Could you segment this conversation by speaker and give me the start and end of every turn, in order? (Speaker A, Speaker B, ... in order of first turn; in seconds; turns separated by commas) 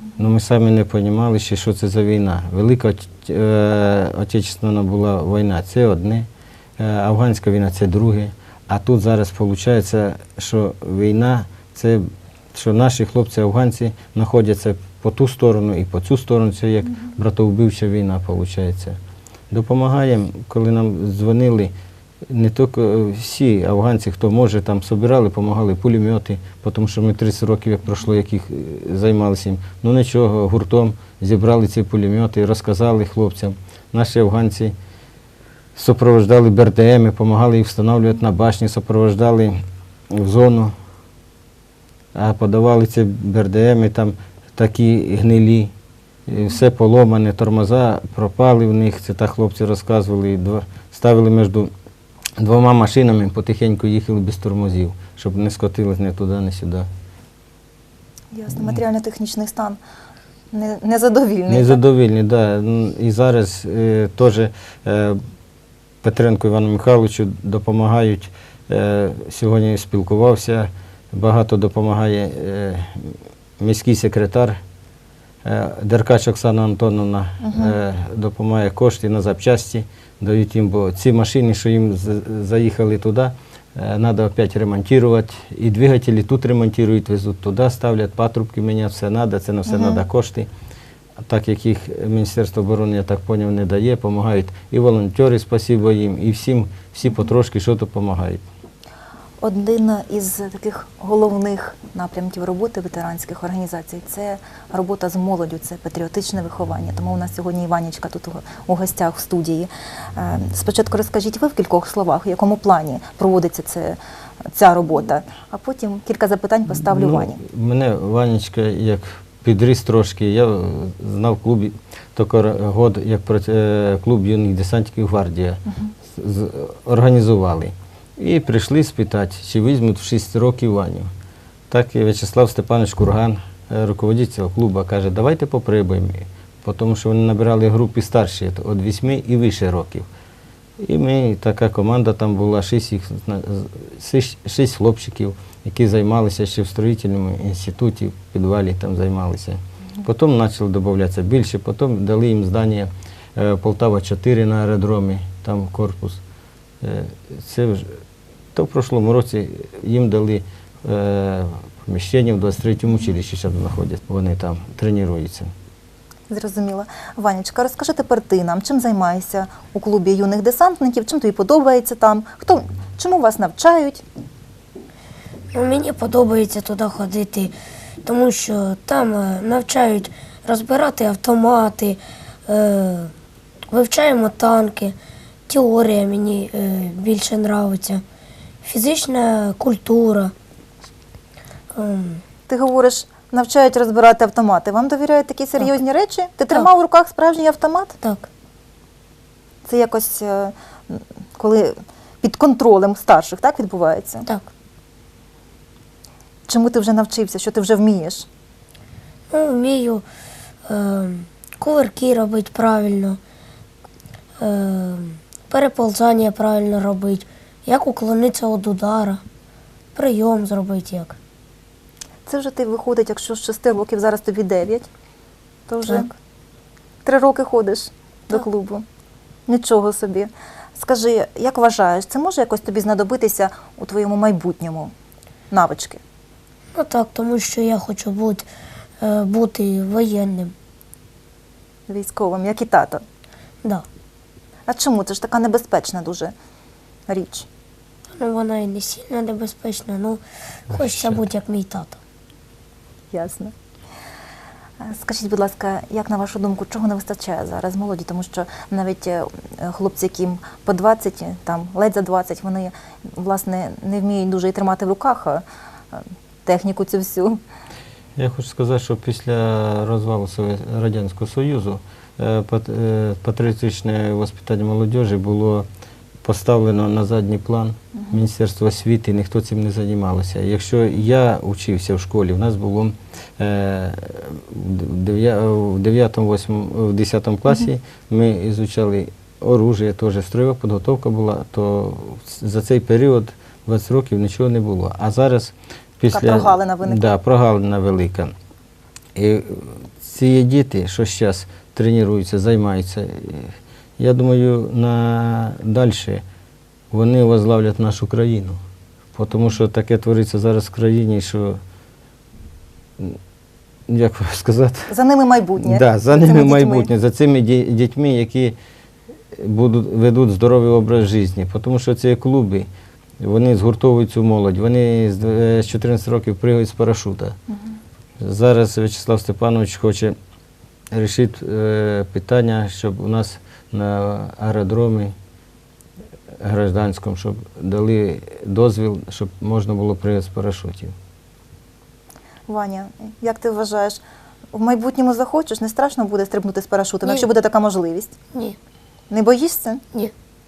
Speaker A: 0.2-6.3, Speaker A: 6.8-19.0, Speaker A: 19.5-21.7, Speaker A: 22.2-34.8, Speaker A: 35.8-40.8, Speaker A: 42.1-45.7, Speaker A: 46.3-51.7, Speaker A: 52.4-56.9, Speaker B: 58.3-59.8, Speaker B: 60.5-61.8, Speaker A: 61.5-65.2, Speaker A: 66.0-74.6, Speaker A: 75.4-90.5, Speaker B: 77.4-77.8, Speaker B: 89.7-90.0, Speaker A: 91.2-98.4, Speaker B: 99.4-114.0, Speaker B: 114.5-117.4, Speaker A: 116.8-131.1, Speaker A: 131.7-140.1, Speaker A: 140.8-156.2, Speaker A: 156.8-158.0, Speaker A: 158.5-165.5, Speaker B: 166.3-174.0, Speaker C: 175.5-183.1, Speaker C: 183.7-184.9, Speaker C: 185.5-188.0, Speaker C: 188.6-190.3, Speaker C: 191.7-192.2, Speaker B: 192.5-198.0, Speaker C: 198.0-198.3, Speaker B: 199.6-204.2, Speaker B: 206.5-208.3, Speaker C: 209.3-210.1, Speaker C: 210.7-213.2, Speaker C: 214.4-219.2, Speaker C: 219.9-221.2, Speaker B: 222.2-224.9, Speaker B: 225.7-226.1, Speaker B: 227.1-228.8, Speaker B: 229.5-234.9, Speaker B: 235.5-236.0, Speaker C: 236.8-238.5, Speaker C: 239.0-240.5, Speaker B: 241.9-243.0, Speaker B: 244.7-246.3, Speaker B: 247.1-247.5, Speaker C: 248.1-252.0, Speaker A: 250.7-251.2, Speaker B: 253.1-253.5, Speaker B: 254.8-267.4, Speaker A: 268.2-275.7, Speaker A: 276.2-298.3, Speaker B: 296.1-297.1, Speaker A: 299.1-306.2, Speaker A: 306.9-308.6, Speaker A: 309.1-311.6, Speaker A: 313.9-314.9, Speaker B: 314.9-316.9, Speaker A: 315.6-318.6, Speaker A: 319.3-322.7, Speaker A: 323.2-327.4, Speaker A: 328.2-330.2, Speaker A: 330.9-335.1, Speaker A: 336.4-340.9, Speaker B: 342.5-344.0, Speaker B: 344.5-348.1, Speaker B: 349.1-349.8